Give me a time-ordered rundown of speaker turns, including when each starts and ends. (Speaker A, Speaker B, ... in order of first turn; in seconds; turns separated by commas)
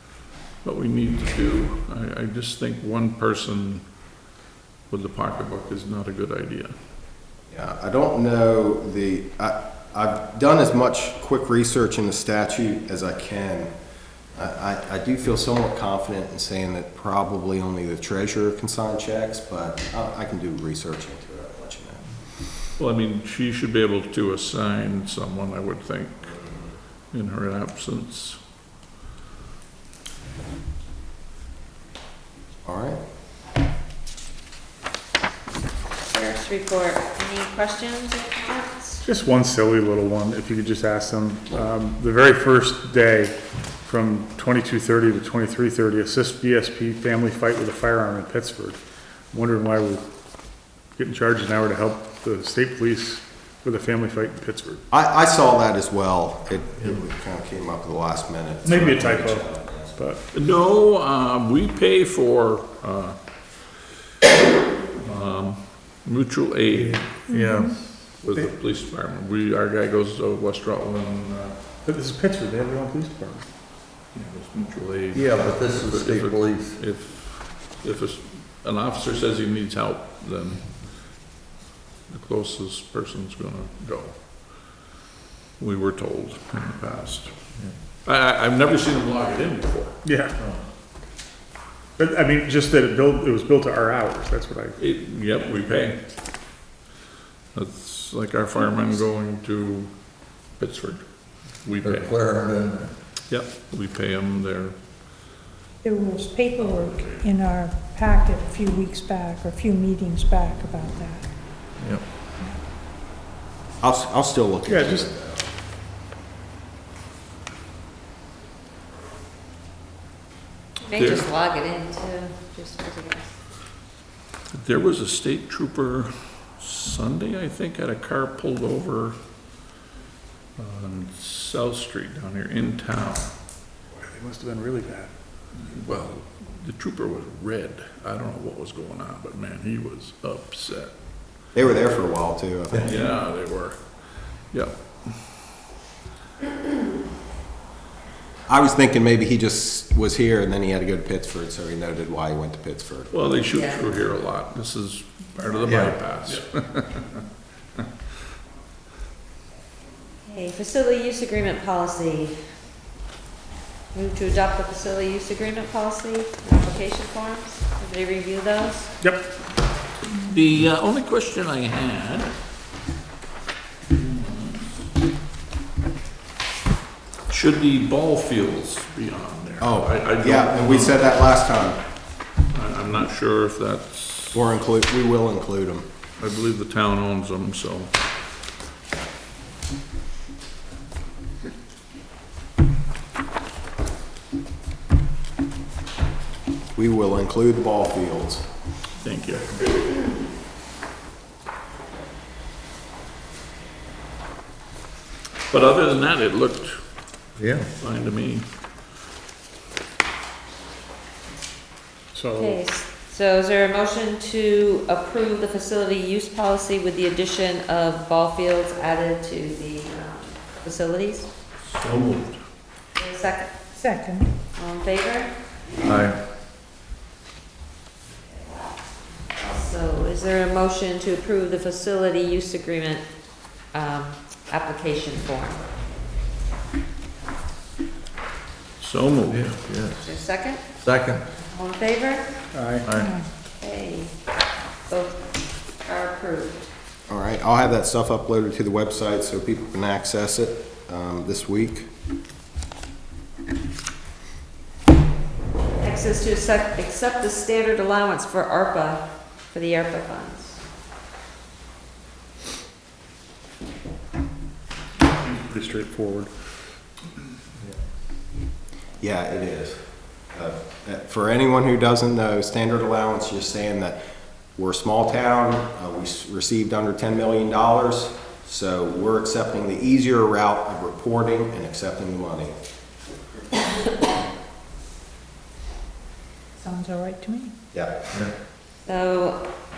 Speaker A: 0.6-3.9, Speaker A: 4.9-6.7, Speaker B: 7.5-13.7, Speaker B: 14.3-22.1, Speaker A: 22.8-26.3, Speaker A: 27.1-28.4, Speaker B: 32.6-33.0, Speaker C: 36.0-39.0, Speaker D: 39.0-48.8, Speaker D: 49.3-50.0, Speaker D: 51.0-54.8, Speaker B: 54.9-60.0, Speaker D: 58.6-60.2, Speaker A: 60.3-63.2, Speaker A: 65.0-67.1, Speaker E: 66.7-68.0, Speaker F: 67.3-67.8, Speaker A: 68.2-71.5, Speaker D: 71.8-73.5, Speaker A: 74.1-81.1, Speaker E: 75.1-76.8, Speaker A: 82.1-84.8, Speaker A: 85.6-87.4, Speaker A: 88.0-90.0, Speaker D: 90.0-90.4, Speaker D: 92.0-94.8, Speaker A: 94.8-96.0, Speaker A: 97.5-102.2, Speaker E: 101.8-102.9, Speaker A: 103.3-104.8, Speaker F: 105.8-111.3, Speaker A: 106.6-107.3, Speaker E: 111.8-112.0, Speaker B: 113.8-115.5, Speaker D: 114.7-115.1, Speaker C: 120.8-123.3, Speaker A: 121.0-121.3, Speaker A: 124.6-129.2, Speaker A: 130.6-133.3, Speaker D: 133.9-135.1, Speaker A: 135.6-140.9, Speaker B: 141.5-143.0, Speaker A: 142.8-145.2, Speaker B: 148.5-153.3, Speaker A: 153.1-157.2, Speaker C: 153.5-153.9, Speaker E: 155.7-156.0, Speaker C: 160.2-162.4, Speaker C: 163.9-168.9, Speaker D: 169.0-169.3, Speaker A: 170.2-172.3, Speaker A: 173.9-174.7, Speaker A: 177.3-181.1, Speaker B: 179.6-181.8, Speaker A: 182.5-184.4, Speaker B: 184.3-185.9, Speaker A: 186.2-187.9, Speaker B: 196.8-198.5, Speaker A: 199.0-199.6, Speaker A: 205.5-206.8, Speaker E: 207.4-207.7, Speaker A: 207.8-208.5, Speaker D: 212.1-212.6, Speaker C: 212.3-221.3, Speaker A: 221.7-222.4, Speaker C: 223.0-223.6, Speaker F: 223.7-224.3, Speaker C: 224.5-225.3, Speaker E: 225.8-226.2, Speaker C: 229.3-233.1, Speaker C: 233.7-235.6, Speaker A: 238.8-239.5, Speaker E: 239.2-240.2, Speaker C: 240.0-240.6, Speaker E: 240.8-241.2, Speaker C: 241.3-242.4, Speaker D: 242.5-242.9, Speaker E: 242.8-243.1, Speaker F: 243.0-243.3, Speaker C: 243.5-244.2, Speaker C: 244.9-245.3, Speaker C: 245.8-246.7, Speaker B: 247.1-251.9, Speaker C: 255.8-260.6, Speaker D: 265.2-266.3, Speaker B: 269.0-274.0, Speaker B: 274.6-282.5, Speaker F: 286.6-287.6, Speaker B: 287.7-288.0, Speaker C: 288.9-289.4